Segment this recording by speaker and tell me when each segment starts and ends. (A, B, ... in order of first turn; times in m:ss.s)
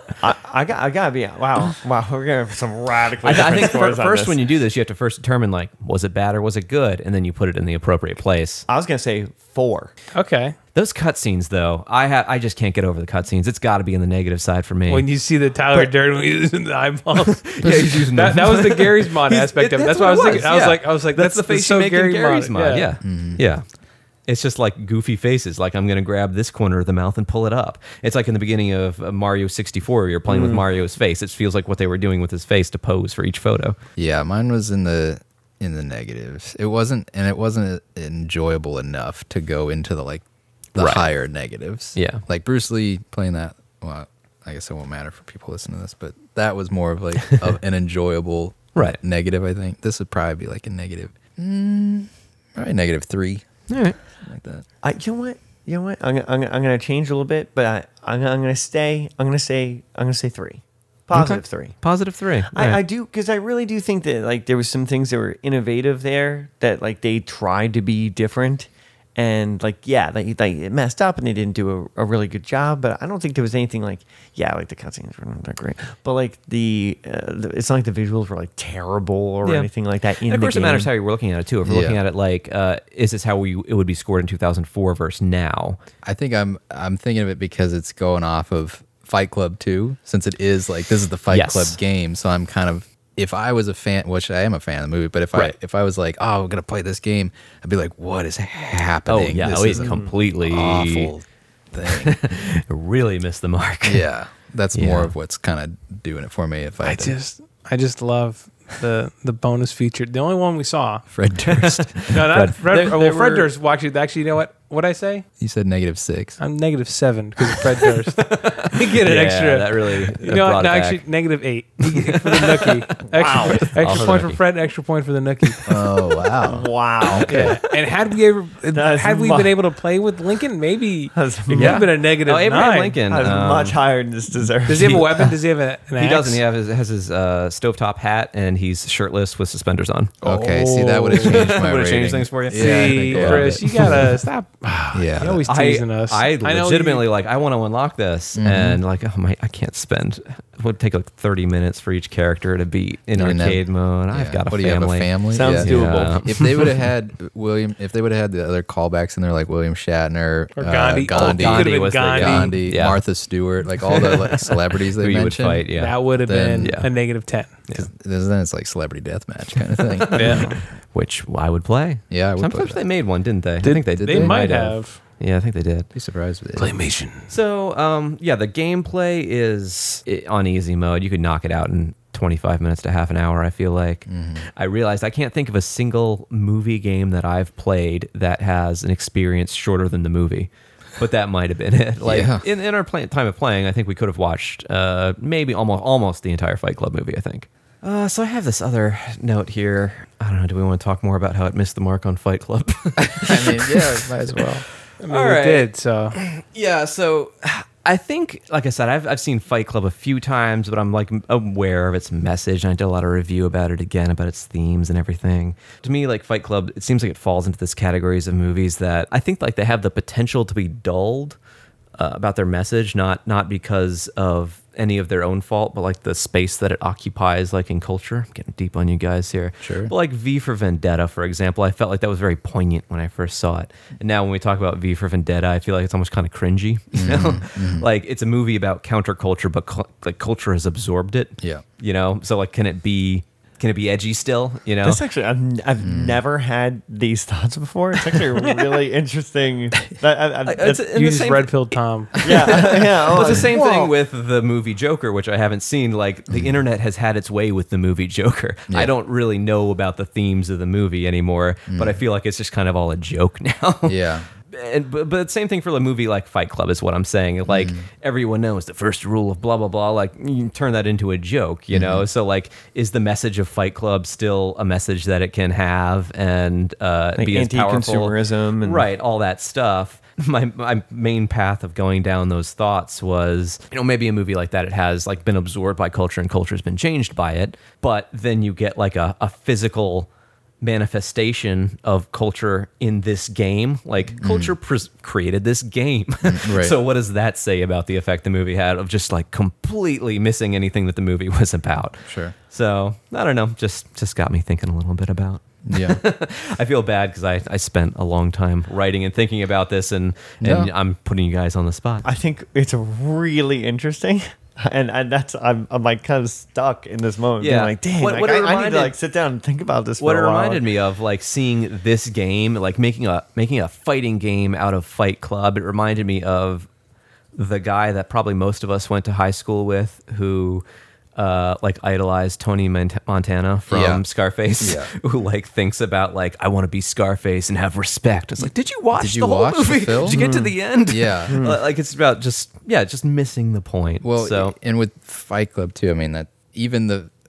0:00.2-0:04.4 A
0:03.2-0:08.6 B
0:08.7-0:09.9 A
0:10.1-0:10.5 C
0:10.7-0:15.1 B
0:14.9-0:17.5 C
0:17.3-0:23.6 B
0:17.6-0:17.9 D
0:18.1-0:22.9 C
0:23.0-0:23.4 D
0:24.3-0:33.8 B
0:30.3-0:30.6 A
0:34.0-0:53.5 D
0:40.8-0:41.0 B
0:41.9-0:42.2 B
0:53.7-0:54.0 B
0:54.2-0:54.6 D
0:54.8-1:01.8 A
1:01.1-1:02.8 B
1:02.5-1:20.9 A
1:19.4-1:19.7 B
1:20.2-1:25.8 B
1:21.6-1:22.0 D
1:26.0-1:42.2 D
1:31.3-1:31.8 B
1:39.1-1:41.1 B
1:39.7-1:40.1 A
1:41.9-1:44.0 B
1:43.8-1:47.2 D
1:44.7-1:45.1 B
1:46.8-1:51.0 C
1:51.1-1:51.9 D
1:51.5-1:53.5 B
1:52.1-1:55.2 C
1:55.4-1:56.4 D
1:56.4-2:05.6 C
1:58.2-2:01.0 B
2:01.8-2:04.4 B
2:03.1-2:03.7 A
2:05.6-2:06.7 D
2:06.4-2:07.4 A
2:07.0-2:07.5 B
2:07.2-2:13.0 C
2:08.7-2:09.6 A
2:11.1-2:11.9 A
2:11.6-2:13.8 B
2:13.1-2:15.3 A
2:14.6-2:16.4 C
2:16.0-2:24.0 B
2:20.2-2:24.1 D
2:20.3-2:21.4 C
2:22.5-2:27.0 C
2:24.9-2:25.4 D
2:25.5-2:36.7 B
2:28.4-2:28.8 D
2:33.1-2:46.8 D
2:35.3-2:36.3 A
2:40.6-2:42.6 C
2:41.1-2:43.0 B
2:43.8-2:46.0 B
2:45.8-2:47.5 C
2:46.6-2:46.9 B
2:47.7-2:50.5 D
2:49.8-2:55.9 B
2:50.1-2:50.5 C
2:52.1-2:52.8 D
2:53.6-2:55.0 C
2:53.6-2:54.4 D
2:55.9-2:56.9 D
2:56.6-3:24.5 B
3:04.1-3:04.4 D
3:12.0-3:12.4 D
3:23.0-3:24.6 D
3:25.0-3:26.2 C
3:25.1-3:41.4 B
3:42.0-4:05.0 B
3:49.6-3:49.9 D
3:56.9-3:57.9 D
4:04.8-4:10.8 A
4:05.8-4:06.2 D
4:10.4-4:50.1 B
4:10.9-4:12.1 C
4:12.2-4:13.9 A
4:13.2-4:13.4 D
4:16.3-4:16.6 D
4:21.7-4:22.0 D
4:23.8-4:24.3 D
4:27.4-4:27.8 D
4:31.7-4:32.0 D
4:37.2-4:38.8 A
4:50.6-5:12.1 B
4:54.2-4:54.5 D
4:56.2-4:56.7 D
5:02.0-5:02.3 D
5:05.6-5:06.0 D
5:10.4-5:10.7 D
5:12.0-5:20.6 A
5:17.4-5:18.9 B
5:20.0-5:26.7 B
5:27.3-5:30.6 B
5:31.2-5:44.5 B
5:33.7-5:34.0 D
5:34.6-5:34.9 D
5:38.9-5:40.2 D
5:40.1-5:40.5 A
5:40.9-5:41.4 D
5:41.3-5:41.6 A
5:44.0-5:47.1 D